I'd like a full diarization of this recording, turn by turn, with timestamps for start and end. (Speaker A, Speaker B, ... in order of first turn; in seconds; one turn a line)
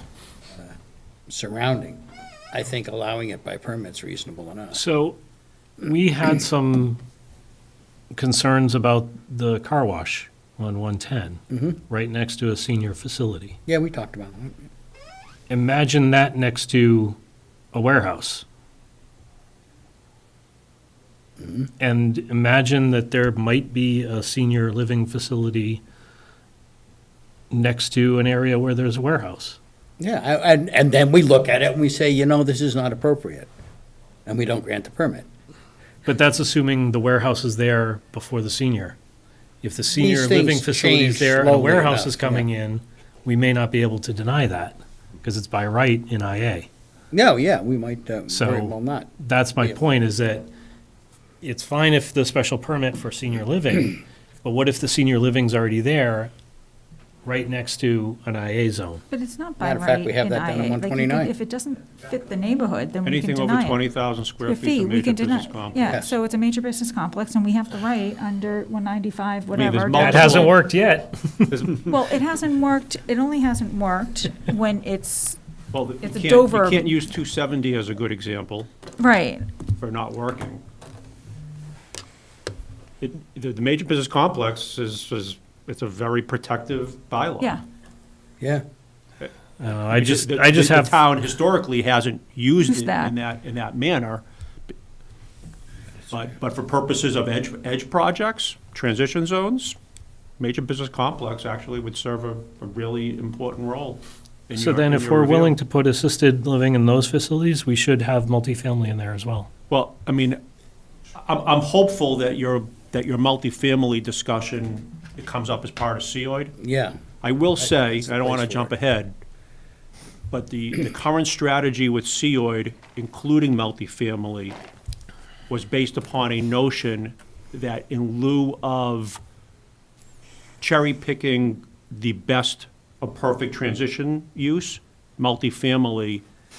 Speaker A: 1.3-2.0
Speaker A: 2.5-4.8
Speaker B: 4.7-5.2
Speaker B: 5.8-7.0
Speaker B: 8.1-13.6
Speaker A: 11.5-11.8
Speaker A: 13.7-14.6
Speaker B: 15.5-17.2
Speaker B: 17.7-18.4
Speaker A: 21.4-21.7
Speaker B: 21.8-25.8
Speaker B: 27.5-29.6
Speaker A: 30.0-33.5
Speaker A: 34.3-35.3
Speaker B: 36.0-39.0
Speaker B: 39.6-46.7
Speaker A: 40.0-42.5
Speaker A: 47.1-49.8
Speaker B: 48.3-50.5
Speaker B: 51.4-56.3
Speaker B: 57.2-59.0
Speaker C: 59.1-63.9
Speaker A: 59.6-61.3
Speaker D: 63.0-66.0
Speaker C: 64.4-70.6
Speaker D: 69.5-70.5
Speaker B: 69.9-71.7
Speaker D: 71.5-72.0
Speaker C: 71.9-75.4
Speaker D: 75.7-78.7
Speaker C: 76.0-77.0
Speaker C: 79.0-79.5
Speaker D: 79.8-80.6
Speaker D: 83.0-87.5
Speaker B: 89.6-91.1
Speaker D: 90.0-94.2
Speaker C: 92.6-93.2
Speaker D: 96.1-99.8
Speaker D: 100.4-105.6
Speaker B: 104.5-109.5
Speaker D: 109.7-110.4
Speaker D: 111.1-116.5
Speaker A: 116.6-117.0
Speaker D: 117.2-119.1
Speaker A: 117.6-118.7
Speaker D: 120.3-124.5
Speaker D: 125.5-129.2
Speaker D: 130.6-136.2